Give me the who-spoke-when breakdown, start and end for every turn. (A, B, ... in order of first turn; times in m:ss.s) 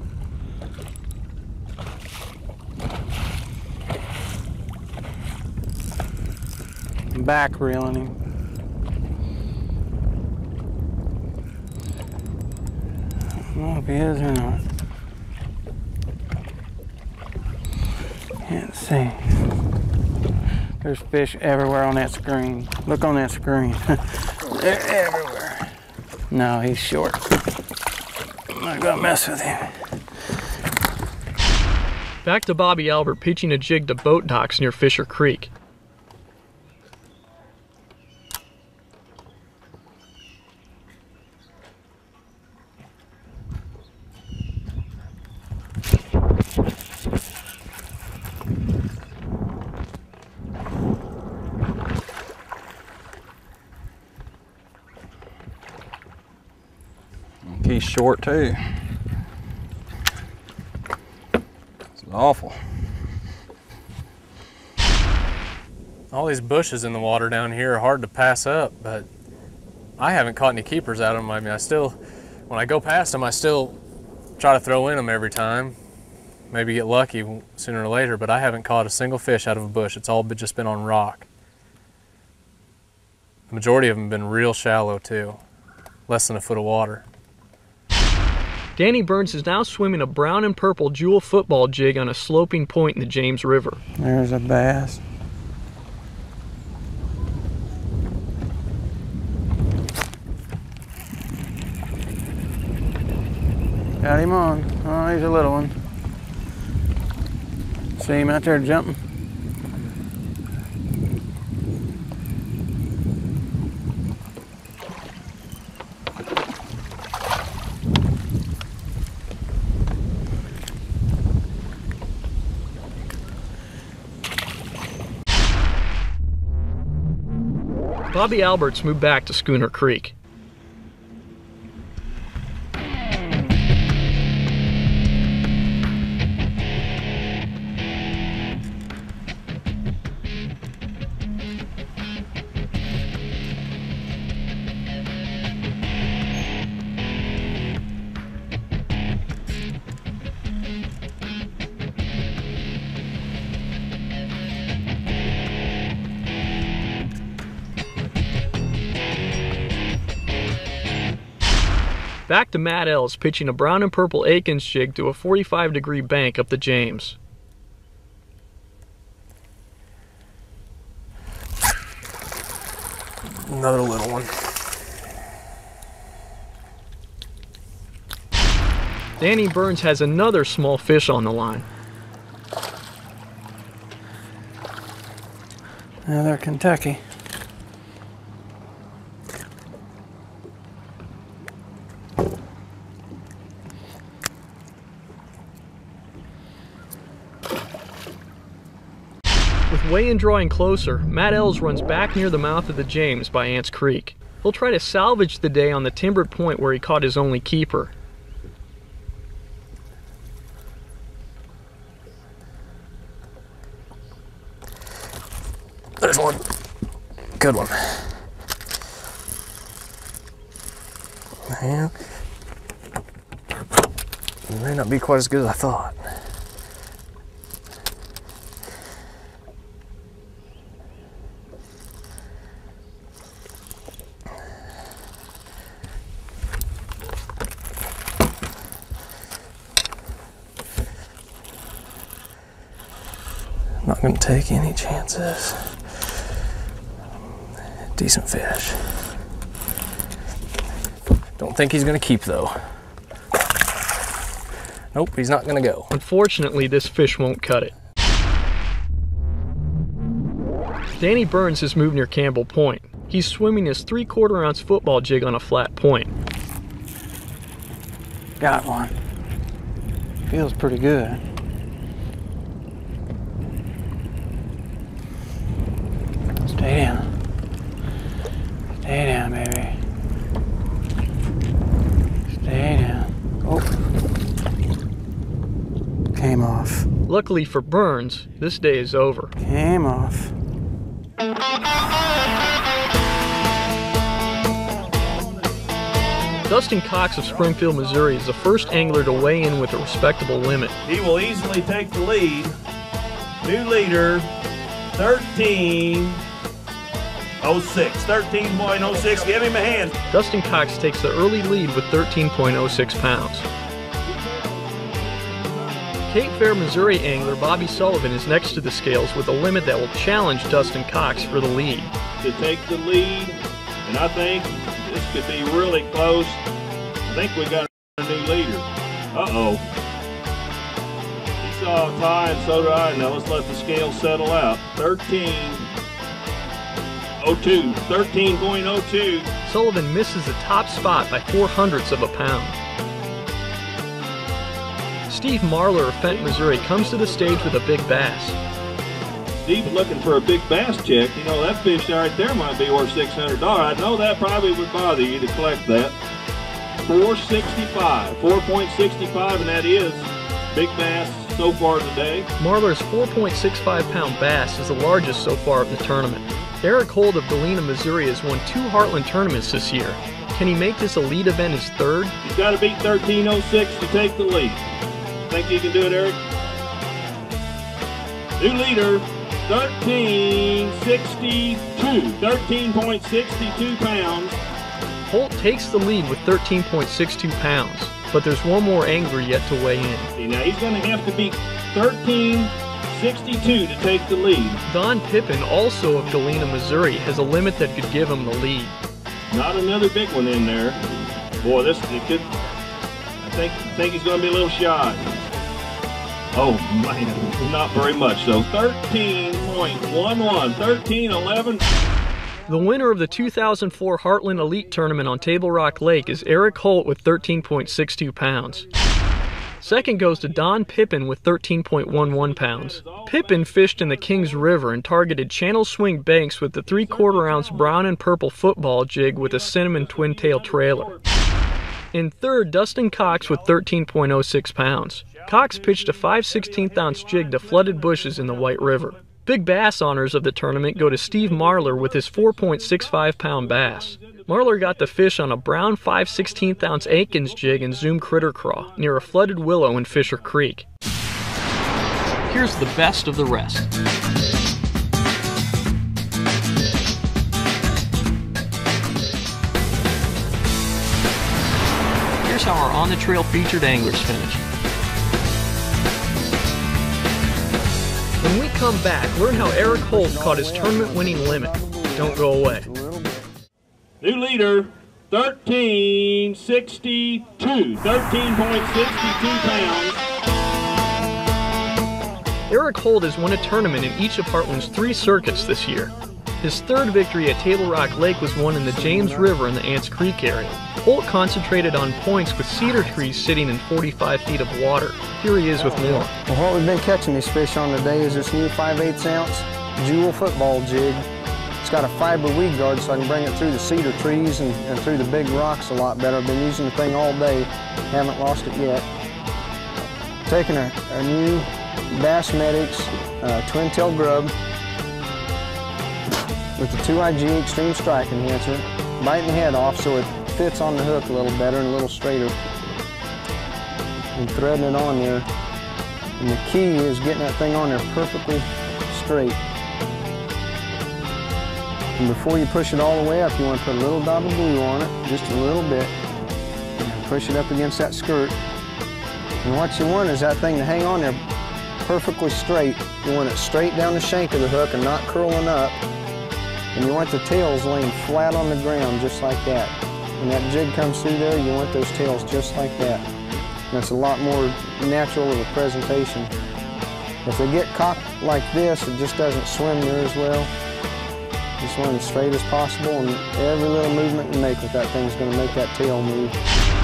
0:07.1-0:08.2 A
0:13.5-0:14.6 A
0:18.4-0:19.4 A
0:20.8-0:25.7 A
0:26.3-0:27.4 A
0:28.5-0:29.8 A
0:32.2-0:35.5 B
0:57.5-0:58.6 C
1:02.0-1:02.8 C
1:06.1-1:09.1 D
1:10.0-1:12.0 D
1:12.5-1:13.8 D
1:14.4-1:15.8 D
1:16.5-1:21.3 D
1:23.5-1:25.4 D
1:26.1-1:27.1 D
1:28.8-1:33.8 B
1:34.0-1:35.0 A
1:44.0-1:45.8 A
1:48.0-1:49.0 A
2:08.1-2:10.2 B
2:42.3-2:47.2 B
2:53.4-2:54.5 D
2:59.2-3:01.7 B
3:06.1-3:07.0 A
3:19.7-3:27.9 B
3:36.0-3:36.5 D
3:37.4-3:38.1 D
3:41.5-3:41.9 D
3:44.5-3:46.0 D
4:03.8-4:05.8 D
4:08.0-4:08.8 D
4:11.4-4:12.7 D
4:14.9-4:15.9 D
4:15.9-4:17.7 B
4:21.0-4:26.1 B
4:28.4-4:29.0 A
4:30.3-4:31.2 A
4:36.4-4:37.1 A
4:38.8-4:39.8 A
4:42.3-4:43.7 A
4:46.1-4:46.9 A
4:47.1-4:49.3 B
4:49.4-4:50.3 A
4:56.5-5:00.7 B
4:57.3-4:59.2 E
5:00.8-5:02.5 E
5:03.4-5:04.3 E
5:05.0-5:06.2 E
5:07.4-5:10.0 E
5:10.1-5:13.5 B
5:14.1-5:16.0 E
5:16.1-5:21.9 B
5:17.0-5:19.1 E
5:20.7-5:21.4 E
5:22.2-5:26.4 E
5:27.1-5:29.7 E
5:31.4-5:35.7 E
5:37.2-5:39.3 E
5:39.4-5:42.6 B
5:45.1-5:48.4 B
5:46.0-5:47.7 E
5:49.4-5:56.0 E
5:56.8-6:02.3 E
6:02.4-6:12.2 B
6:12.2-6:14.6 E
6:15.3-6:16.2 E
6:18.4-6:24.3 E
6:25.1-6:30.1 B
6:30.2-6:34.6 E
6:34.7-6:38.8 B
6:39.3-6:42.3 E
6:43.2-6:45.1 E
6:46.3-6:51.6 E
6:52.5-6:58.7 B
6:59.6-7:10.9 B
7:01.9-7:04.3 E
7:06.8-7:07.7 E
7:09.2-7:11.1 E
7:11.9-7:30.7 B
7:16.4-7:18.1 E
7:21.1-7:24.8 E
7:32.3-7:33.7 B
7:42.2-7:44.4 B
7:48.2-7:52.7 B
7:49.6-7:53.3 F
7:54.0-8:00.0 E
8:02.5-8:16.1 B
8:08.7-8:09.3 F
8:15.6-8:21.1 F
8:21.6-8:28.9 F
8:30.3-8:34.3 F
8:36.6-8:42.4 F
8:44.1-8:45.3 F
8:46.2-8:49.4 F
8:52.0-8:55.9 F
8:56.8-8:58.4 F
8:59.4-9:01.2 F
9:01.8-9:05.8 F
9:06.7-9:13.0 F
9:13.7-9:16.3 F
9:17.2-9:20.5 F
9:21.6-9:26.4 F